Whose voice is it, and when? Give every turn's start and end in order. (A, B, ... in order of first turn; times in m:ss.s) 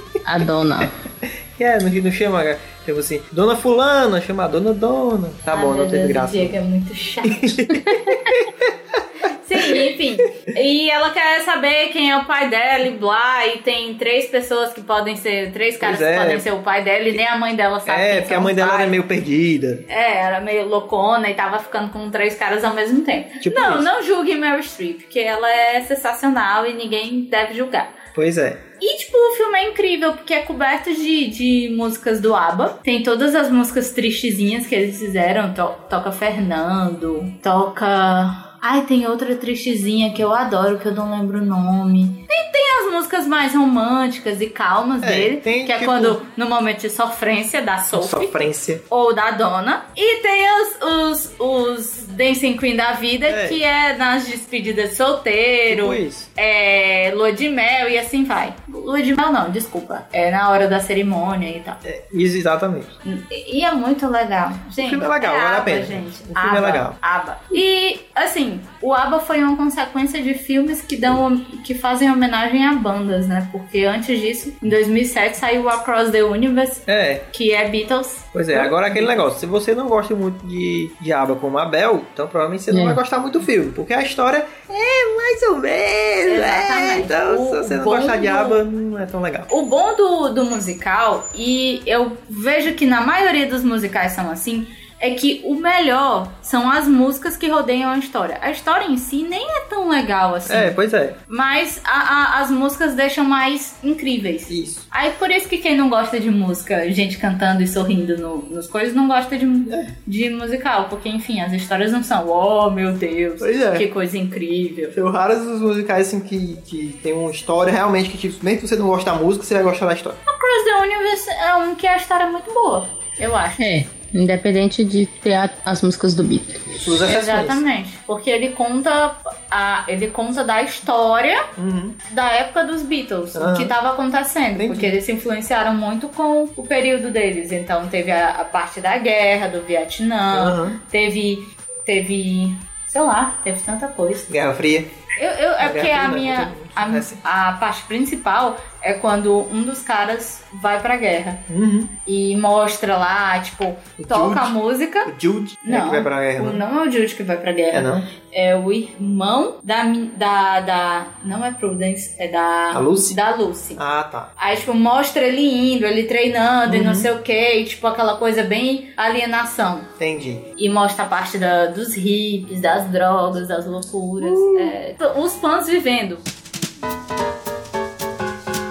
0:00.2-0:00.9 A
0:00.8-0:06.6 B
0:05.5-0:07.6 C
0:07.2-0:08.7 B
0:09.3-0:19.0 C
0:09.6-0:09.8 B
0:15.8-0:16.4 B
0:17.8-0:19.8 B
0:19.9-0:28.0 C
0:23.4-0:23.9 B
0:28.1-0:28.6 B
0:28.8-1:01.8 C
0:45.0-0:46.2 B
0:47.9-0:48.8 B
0:53.3-0:53.6 B
0:55.7-0:56.3 B
1:01.8-1:02.9 B
1:03.0-1:19.2 C
1:04.8-1:07.0 B
1:16.9-1:17.2 B
1:18.3-1:29.5 B
1:22.7-1:23.0 A
1:26.2-1:28.6 C
1:29.5-1:40.8 C
1:40.5-1:41.2 B
1:41.3-1:54.9 C
1:44.5-1:44.8 B
1:53.4-1:53.9 B
1:54.9-2:00.2 B
2:00.2-2:03.7 C
2:03.6-2:06.8 A
2:06.8-2:07.6 B
2:07.0-2:11.4 C
2:11.6-2:12.0 B
2:12.0-2:24.3 C
2:13.3-2:13.7 B
2:14.6-2:14.9 B
2:20.3-2:20.8 B
2:24.3-2:24.9 B
2:25.2-2:31.4 C
2:25.6-2:27.2 B
2:31.5-2:31.9 B
2:32.0-2:35.1 C
2:34.0-2:36.6 B
2:35.6-2:43.8 C
2:37.7-2:38.1 B
2:42.7-2:43.2 B
2:43.8-2:44.3 B
2:44.4-2:49.9 C
2:46.7-2:47.1 B
2:50.0-2:50.5 B
2:50.6-2:56.2 C
2:54.2-2:54.8 B